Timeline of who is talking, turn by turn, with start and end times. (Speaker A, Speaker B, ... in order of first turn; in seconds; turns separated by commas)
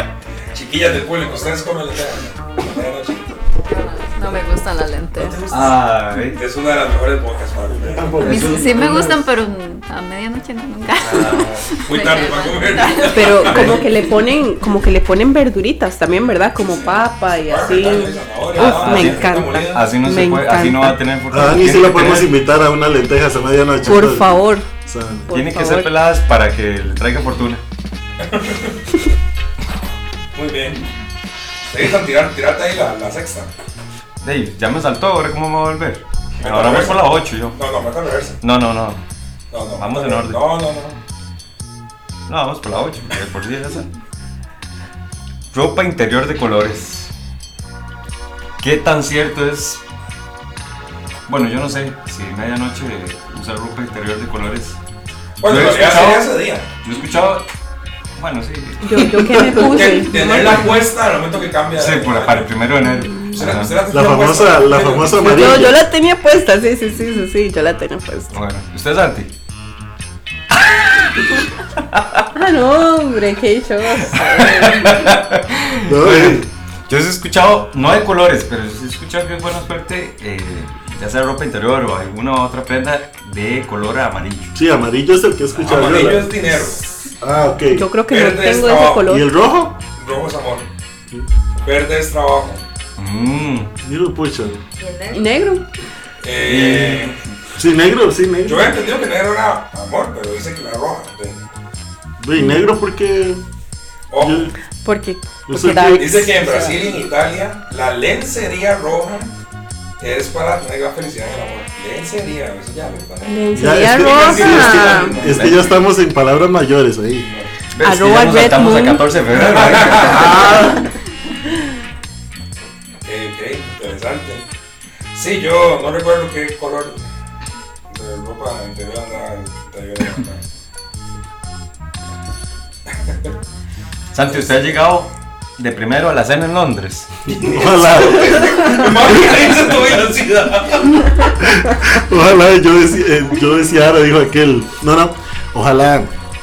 Speaker A: 0.5-3.4, Speaker B: 3.6-5.5, Speaker A: 5.2-5.8, Speaker C: 5.5-6.4, Speaker A: 6.3-8.3, Speaker D: 7.7-9.3, Speaker B: 8.2-13.8, Speaker C: 8.3-8.7, Speaker C: 11.0-11.8, Speaker A: 11.8-13.9, Speaker E: 13.1-21.0, Speaker A: 16.6-19.9, Speaker C: 18.6-22.3, Speaker D: 21.3-25.3, Speaker E: 23.9-24.7, Speaker E: 25.3-25.9, Speaker C: 25.3-27.6, Speaker A: 28.2-28.8, Speaker A: 30.4-30.8, Speaker A: 31.7-33.5, Speaker C: 34.2-37.6, Speaker A: 36.4-38.4, Speaker C: 38.4-39.0, Speaker A: 39.5-41.0, Speaker C: 39.8-40.4, Speaker C: 42.3-43.9, Speaker C: 45.5-47.1, Speaker C: 48.6-49.8, Speaker C: 51.3-54.8, Speaker A: 55.4-56.7, Speaker C: 55.4-57.5, Speaker C: 58.2-59.1, Speaker E: 58.8-60.8, Speaker D: 59.1-59.7, Speaker A: 59.6-62.5, Speaker C: 61.8-63.8, Speaker E: 63.0-63.3, Speaker A: 63.3-65.3, Speaker D: 63.9-65.8, Speaker E: 65.2-68.3, Speaker C: 68.3-69.3, Speaker C: 70.6-72.2, Speaker E: 72.3-75.1, Speaker C: 74.0-84.5, Speaker D: 75.8-76.5, Speaker D: 84.5-87.9, Speaker A: 85.6-86.8, Speaker E: 87.7-89.3, Speaker A: 88.1-89.1, Speaker D: 89.1-89.8, Speaker A: 90.0-90.7, Speaker A: 91.6-92.6, Speaker C: 93.0-93.7, Speaker D: 93.8-94.6, Speaker B: 94.8-95.3, Speaker E: 95.1-95.7, Speaker A: 96.2-97.2, Speaker C: 96.4-97.2, Speaker D: 97.6-98.7, Speaker A: 98.4-101.4, Speaker D: 102.2-103.4, Speaker A: 104.1-104.5, Speaker D: 104.2-104.5, Speaker E: 104.8-106.8, Speaker D: 105.5-106.4, Speaker A: 106.0-109.3, Speaker A: 110.0-113.4, Speaker E: 113.2-115.1, Speaker D: 113.5-117.3, Speaker A: 113.9-115.6, Speaker C: 115.2-115.6, Speaker A: 117.2-117.5, Speaker C: 117.7-120.6, Speaker E: 117.8-119.0, Speaker A: 119.3-120.8, Speaker D: 120.0-120.9, Speaker A: 123.0-124.5, Speaker A: 125.1-127.0, Speaker A: 127.9-130.4, Speaker A: 132.9-133.3, Speaker C: 134.1-137.1, Speaker A: 134.3-134.6, Speaker D: 137.3-139.6, Speaker A: 137.3-141.2, Speaker D: 141.4-146.1